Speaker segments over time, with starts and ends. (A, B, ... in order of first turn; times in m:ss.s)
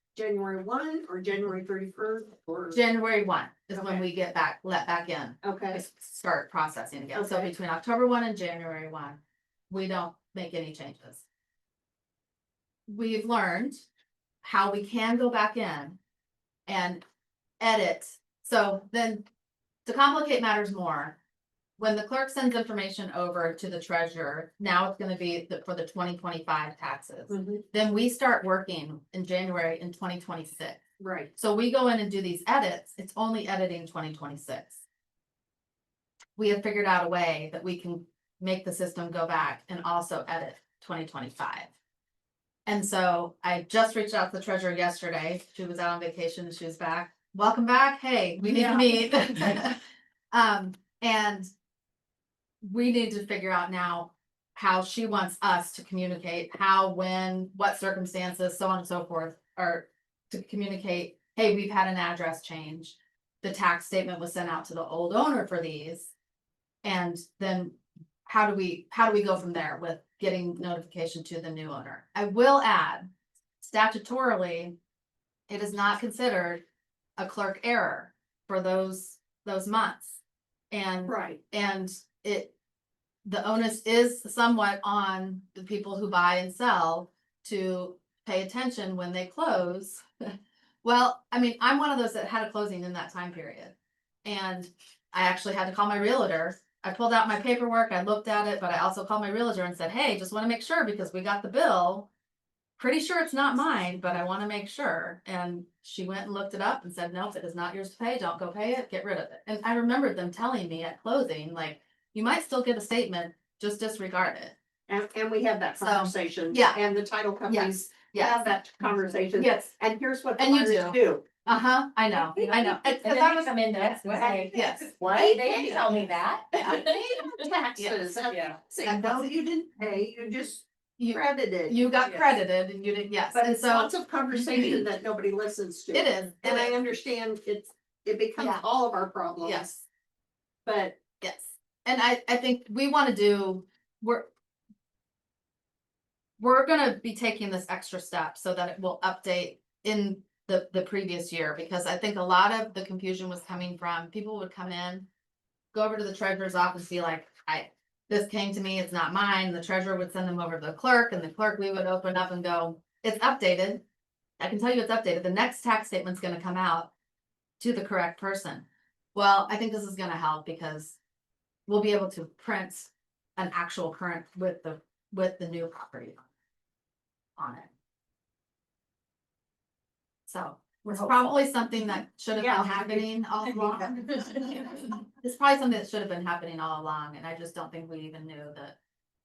0:00.1-0:02.8 A
0:02.7-0:11.2 B
0:03.7-0:04.0 A
0:05.4-0:05.8 A
0:07.1-0:07.5 A
0:12.9-0:13.8 B
0:14.4-0:16.0 B
0:16.7-0:17.0 B
0:17.6-0:19.3 B
0:19.8-0:21.2 B
0:21.8-0:30.8 B
0:27.3-0:27.6 A
0:31.0-0:31.3 A
0:31.3-0:34.8 B
0:36.4-0:41.7 B
0:42.6-0:49.8 B
0:48.5-0:48.9 A
0:50.3-0:51.5 B
0:52.6-1:06.1 B
1:06.8-1:13.1 B
1:13.6-1:14.8 B
1:15.5-1:16.6 B
1:17.2-1:20.2 B
1:20.7-1:22.5 B
1:21.1-1:21.4 A
1:23.2-1:30.3 B
1:30.8-1:42.1 B
1:42.8-1:54.6 B
1:54.9-2:01.2 A
1:55.8-1:56.8 B
1:57.5-1:58.4 B
1:59.3-1:59.7 B
2:00.4-2:03.5 B
2:02.1-2:07.5 C
2:04.2-2:05.9 A
2:04.5-2:04.9 B
2:06.7-2:11.8 A
2:08.3-2:08.6 C
2:08.8-2:09.3 B
2:11.0-2:13.9 B
2:13.3-2:19.7 A
2:15.9-2:16.8 B
2:18.4-2:18.6 B
2:19.4-2:19.8 B
2:20.6-2:21.0 A
2:21.2-2:24.3 B
2:26.4-2:35.1 B
2:35.7-2:43.8 B
2:44.4-2:46.9 B
2:47.6-2:51.0 B
2:51.7-2:56.2 B
2:57.4-2:57.7 B
3:00.3-3:08.8 B
3:00.9-3:01.3 A
3:02.3-3:04.0 A